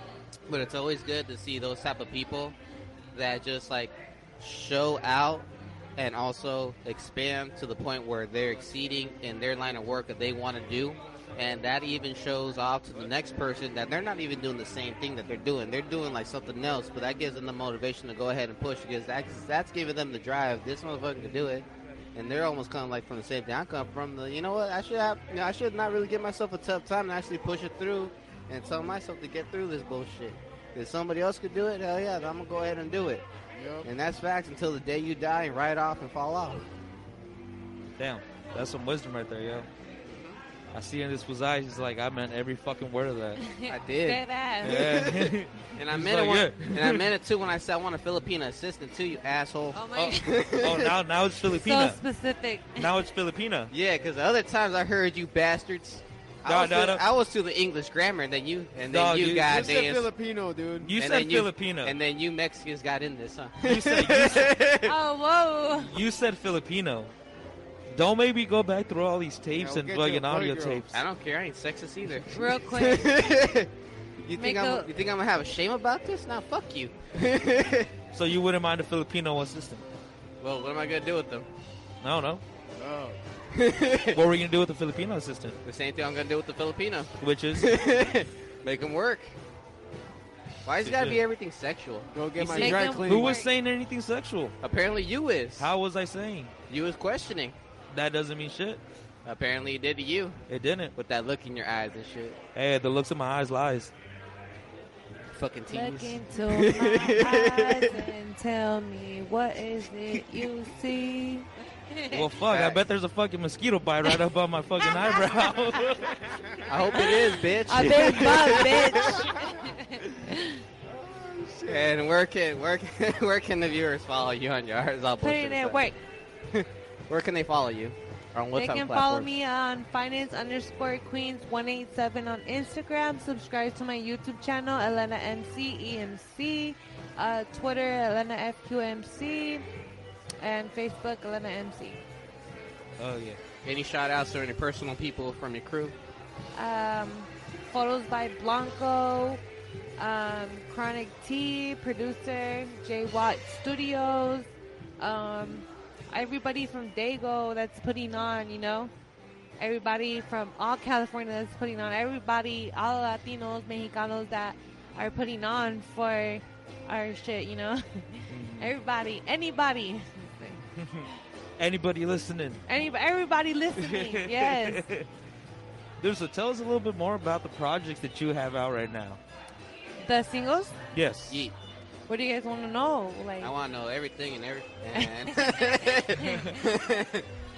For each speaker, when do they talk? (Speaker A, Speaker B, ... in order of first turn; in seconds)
Speaker A: 0.5-2.6, 3.1-33.2, 33.8-36.6, 40.1-40.4, 43.7-50.9, 53.7-60.1, 61.0-64.9, 70.9-73.7, 74.2-77.9, 80.4-81.5, 83.5-84.2, 85.7-89.3, 90.7-92.7, 94.6-95.7, 96.7-97.6, 99.2-100.4, 101.0-102.4, 105.3-108.0, 112.5-112.8, 116.7-119.3, 121.7-125.8, 126.5-129.3, 143.7-145.9, 183.4-187.3
Speaker B: 33.5-33.9, 59.3-60.9, 69.5-70.9, 82.8-83.2, 92.1-93.4, 116.2-116.5, 118.4-119.7, 120.9-122.0
Speaker C: 38.0-39.7, 40.7-43.4, 44.6-47.0, 50.0-52.0, 52.8-53.7, 56.5-57.0, 58.9-59.6, 60.8-62.0, 63.6-64.5, 65.7-67.1, 67.9-70.9, 78.1-79.8, 82.0-82.4, 84.1-85.6, 87.2-87.7, 90.8-91.2, 92.6-94.5, 95.6-96.5, 97.9-98.8, 100.5-100.9, 102.5-103.9, 112.1-116.2, 143.0-143.4, 168.3-168.7, 170.8-172.6, 173.8-175.1, 176.0-179.2, 180.9-181.5
Speaker D: 43.4-44.9, 49.7-50.4, 51.5-52.9, 64.8-66.0, 72.3-73.1, 74.4-74.9, 92.5-93.5, 105.7-112.3, 114.8-115.8, 116.6-120.6, 125.2-126.0, 128.6-139.6, 140.4-142.0, 146.6-149.4, 150.0-158.9, 159.6-171.1, 172.7-174.8, 180.0-180.8, 182.1-183.5, 184.9-186.6